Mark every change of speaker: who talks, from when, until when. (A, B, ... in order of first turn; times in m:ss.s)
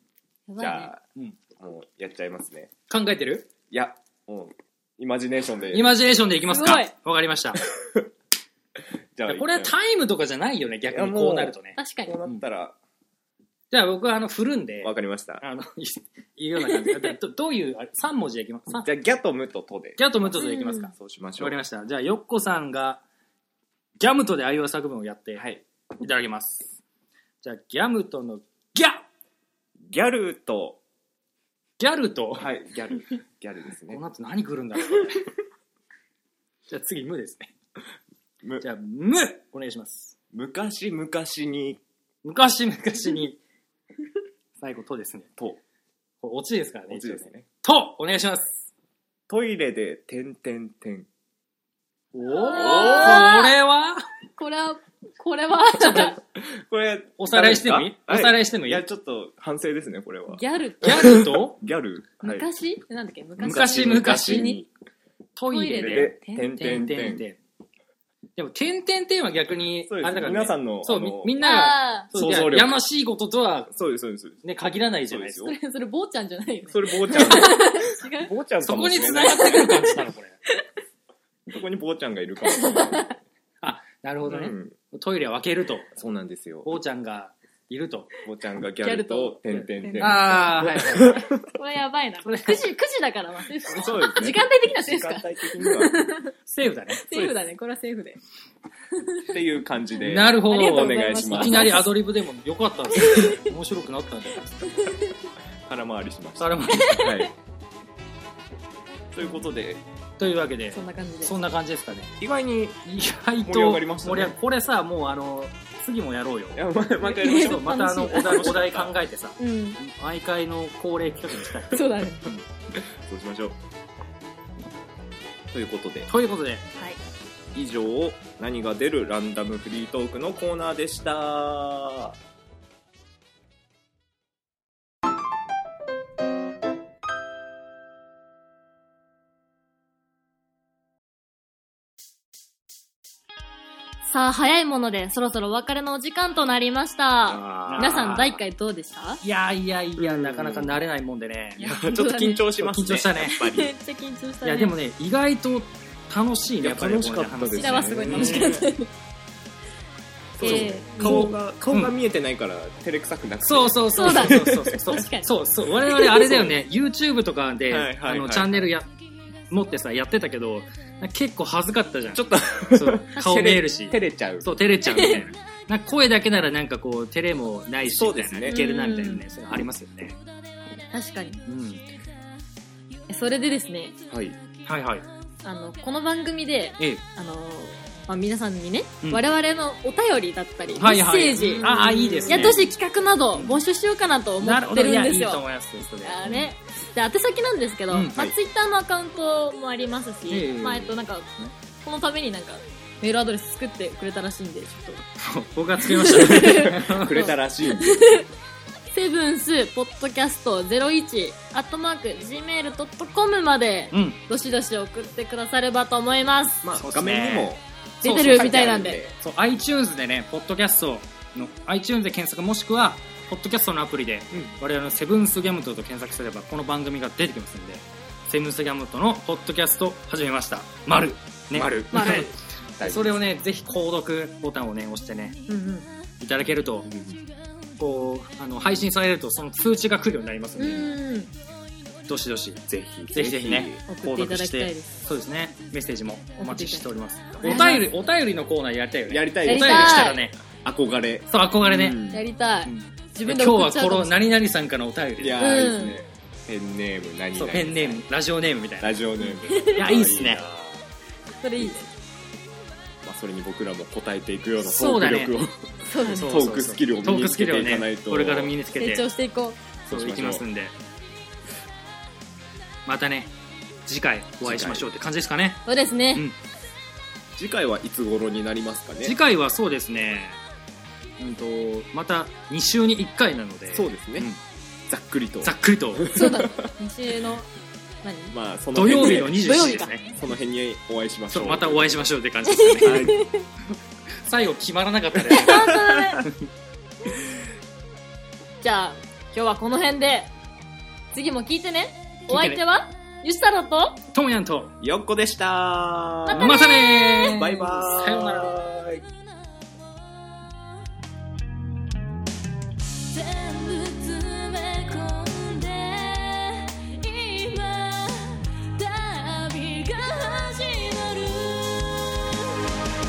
0:00.5-0:00.9 A
0:00.6-0:01.0 B
0:01.5-0:02.7 B
0:02.9-0:03.5 C
0:03.7-0:06.1 B
0:05.7-0:07.6 C
0:06.5-0:06.9 A
0:07.7-0:08.1 B
0:09.1-0:09.7 B
0:09.3-0:11.8 C
0:10.9-0:12.8 B
0:11.8-0:12.2 A
0:13.7-0:18.9 C
0:14.8-0:15.4 B
0:16.6-0:17.1 A
0:18.8-0:20.4 B
0:20.0-0:23.0 C
0:20.3-0:20.9 A
0:20.9-0:21.6 B
0:24.0-0:25.4 C
0:25.4-0:25.6 B
0:26.0-0:26.8 C
0:27.4-0:29.0 C
0:29.8-0:30.8 B
0:31.8-0:32.5 C
0:32.3-0:34.0 B
0:33.9-0:35.2 C
0:36.7-0:37.5 C
0:38.6-0:40.1 C
0:40.3-0:41.8 B
0:42.2-0:43.4 C
0:44.6-0:45.3 C
0:46.2-0:48.6 C
0:46.9-0:47.5 B
0:49.3-0:51.1 B
0:52.1-0:54.0 C
0:52.3-0:53.6 A
0:52.6-0:53.2 B
0:54.4-0:56.2 A
0:55.8-0:56.1 C
0:55.9-1:02.4 B
0:57.2-0:58.8 C
1:00.3-1:01.2 A
1:00.8-1:01.6 C
1:02.2-1:04.6 A
1:03.4-1:04.7 B
1:03.4-1:04.5 C
1:05.4-1:07.4 C
1:05.5-1:06.8 A
1:05.8-1:07.2 B
1:08.4-1:13.7 C
1:09.9-1:12.8 B
1:11.4-1:12.1 A
1:13.7-1:14.4 B
1:14.4-1:15.5 C
1:15.0-1:15.5 B
1:15.4-1:18.3 A
1:16.7-1:19.6 B
1:18.6-1:20.4 C
1:19.0-1:20.6 A
1:21.5-1:23.1 B
1:22.4-1:23.2 A
1:23.6-1:25.9 C
1:24.2-1:24.7 B
1:25.9-1:26.7 B
1:26.6-1:28.1 C
1:28.2-1:31.5 B
1:28.8-1:36.3 A
1:30.0-1:31.2 C
1:32.2-1:32.6 C
1:33.6-1:36.1 B
1:36.4-1:37.2 C
1:36.9-1:38.2 A
1:38.9-1:39.2 A
1:39.3-1:41.8 B
1:40.0-1:44.7 C
1:40.4-1:41.9 A
1:42.9-1:43.5 A
1:44.8-1:45.1 A
1:45.6-1:47.3 B
1:46.4-1:47.1 C
1:46.8-1:47.3 A
1:49.1-1:49.8 B
1:50.2-1:52.1 C
1:50.7-1:51.3 A
1:52.2-1:52.8 B
1:52.8-1:56.6 C
1:53.4-1:54.3 B
1:56.5-1:59.0 B
1:57.0-1:58.7 A
1:57.2-2:02.4 C
1:59.4-1:59.8 A
2:01.7-2:02.3 A
2:02.7-2:03.6 B
2:05.5-2:06.1 B
2:06.1-2:06.6 C
2:07.5-2:12.2 B
2:24.0-2:29.2 A
2:27.3-2:28.4 B
2:27.4-2:28.4 C
2:29.2-2:31.6 C
2:30.0-2:30.8 B
2:31.6-2:32.5 A
2:31.6-2:33.8 B
2:32.6-2:33.4 C
2:33.2-2:34.7 A
2:34.4-2:38.6 C
2:36.6-2:38.7 B
2:37.5-2:38.9 A
2:40.3-2:44.8 B
2:40.4-2:41.3 A
2:40.4-2:41.9 C
2:43.4-2:48.9 C
2:43.9-2:46.5 A
2:46.3-2:46.5 B
2:47.7-2:48.6 B
2:49.5-3:00.2 C
2:52.1-2:55.2 B
2:54.9-2:55.2 A
2:57.8-2:58.6 B
2:58.4-2:59.2 A
3:00.9-3:01.4 A
3:01.5-3:01.8 C
3:03.1-3:04.0 A
3:04.1-3:04.4 B
3:04.6-3:05.1 C
3:05.4-3:11.7 A
3:10.8-3:12.6 C
3:11.5-3:12.6 B
3:12.2-3:15.4 A
3:13.3-3:13.6 C
3:14.4-3:16.5 C
3:16.0-3:25.0 A
3:20.3-3:21.0 C
3:25.2-3:27.2 C
3:25.8-3:28.3 A
3:26.3-3:28.2 B
3:28.9-3:36.6 A
3:33.9-3:34.2 C
3:36.6-3:39.1 B
3:36.7-3:55.4 C
3:38.0-3:39.0 A
3:51.5-3:53.2 B
3:51.9-3:52.3 A
3:55.5-3:55.9 A
3:56.2-3:56.9 C
3:56.8-3:57.2 B
3:57.8-4:01.0 C
4:00.6-4:01.3 A
4:02.1-4:10.3 C
4:02.7-4:03.8 B
4:03.9-4:04.9 A
4:06.4-4:06.8 A
4:07.3-4:07.9 B
4:07.4-4:07.9 A
4:09.1-4:12.2 B
4:09.4-4:10.2 A
4:11.3-4:12.0 C
4:12.1-4:14.2 A
4:12.6-4:15.5 C
4:15.2-4:18.0 B
4:15.4-4:16.0 A
4:17.4-4:19.0 C
4:18.8-4:20.8 B
4:19.2-4:19.8 A
4:19.8-4:20.4 C
4:21.4-4:21.9 A
4:23.0-4:28.6 B
4:24.6-4:25.4 C
4:25.8-4:26.4 A
4:26.0-4:29.0 C
4:28.8-4:29.6 A
4:29.9-4:30.7 C
4:29.9-4:30.4 B
4:32.8-4:33.3 C
4:33.8-4:36.4 C
4:34.4-4:34.9 B
4:35.6-4:36.2 A
4:37.4-4:39.2 B
4:39.0-4:40.4 C
4:41.2-4:44.4 C
4:43.7-4:44.3 B
4:44.9-4:46.7 B
4:45.4-4:46.2 C
4:46.1-4:47.5 A
4:48.0-4:48.4 A
4:48.3-4:52.1 B
4:48.7-4:50.1 C
4:48.9-4:50.0 A
4:51.3-4:53.1 C
4:52.5-4:53.4 A
4:52.8-4:53.2 B
4:54.2-4:56.3 C
4:55.2-4:56.2 B
4:55.3-4:56.2 A
4:58.6-5:00.3 A
5:01.1-5:04.0 A
5:02.3-5:02.6 C
5:04.1-5:04.7 C
5:04.8-5:06.6 B
5:06.3-5:07.6 A
5:06.3-5:08.5 C
5:07.3-5:09.0 B
5:13.0-5:22.7 A